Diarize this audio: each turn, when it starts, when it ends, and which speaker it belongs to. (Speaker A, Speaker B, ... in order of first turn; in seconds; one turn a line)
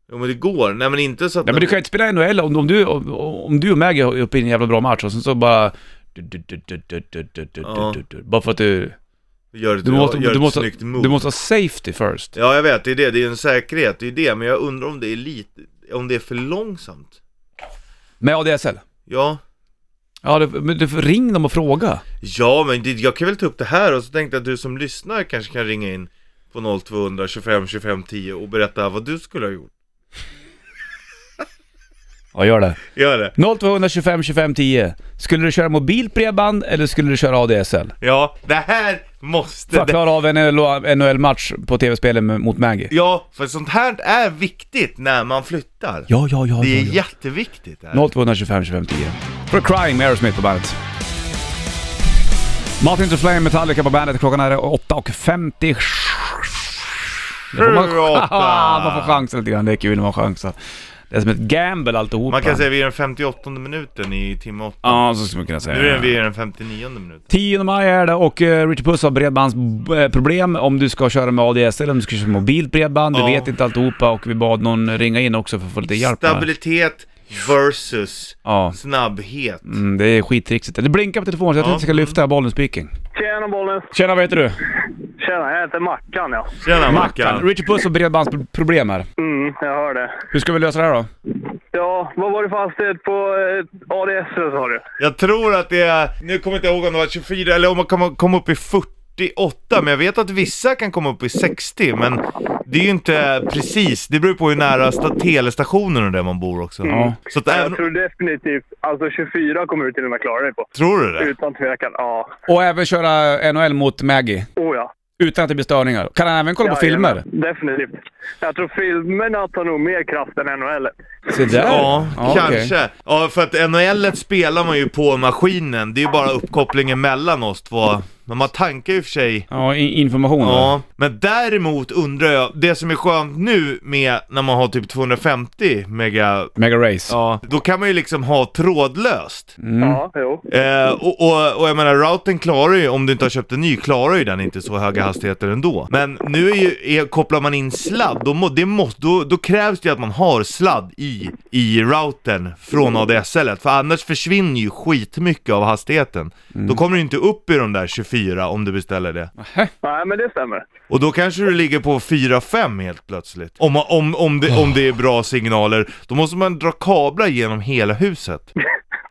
Speaker A: 0.1-1.8
Speaker B: 1.5-9.0
Speaker A: 7.6-8.0
Speaker A: 9.5-11.2
Speaker B: 9.8-12.4
Speaker A: 12.3-17.2
Speaker B: 18.2-18.8
Speaker A: 19.1-19.4
Speaker B: 20.2-22.0
Speaker A: 22.2-29.7
Speaker B: 32.4-32.8
Speaker A: 32.9-33.4
Speaker B: 33.4-37.9
Speaker A: 38.0-40.0
Speaker B: 39.7-42.9
Speaker A: 42.9-48.1
Speaker B: 46.1-47.0
Speaker B: 47.9-50.8
Speaker B: 52.8-60.5
Speaker A: 57.5-59.2
Speaker B: 61.1-62.6
Speaker A: 62.3-65.0
Speaker B: 64.8-66.2
Speaker A: 65.7-67.3
Speaker B: 67.3-76.5
Speaker A: 73.1-73.5
Speaker A: 75.9-79.8
Speaker B: 78.5-78.8
Speaker B: 79.7-82.9
Speaker A: 81.6-82.2
Speaker C: 83.2-83.9
Speaker B: 83.9-84.6
Speaker C: 85.2-86.6
Speaker A: 86.6-87.5
Speaker B: 86.9-89.1
Speaker C: 89.2-90.2
Speaker B: 90.3-91.1
Speaker C: 91.7-94.8
Speaker A: 95.0-107.8
Speaker C: 106.9-112.3
Speaker B: 106.9-107.2
Speaker A: 110.8-111.3
Speaker B: 112.5-114.5
Speaker C: 114.6-114.9
Speaker B: 115.2-117.2
Speaker C: 116.6-120.9
Speaker B: 121.3-122.7
Speaker C: 121.4-121.7
Speaker A: 121.5-129.5
Speaker B: 129.5-130.8
Speaker A: 130.4-136.5
Speaker B: 136.6-137.2
Speaker A: 137.1-139.5
Speaker B: 139.6-140.0
Speaker C: 139.8-140.5
Speaker A: 140.5-159.3
Speaker B: 156.5-156.8
Speaker B: 159.4-159.7
Speaker C: 159.8-160.7
Speaker A: 160.9-168.5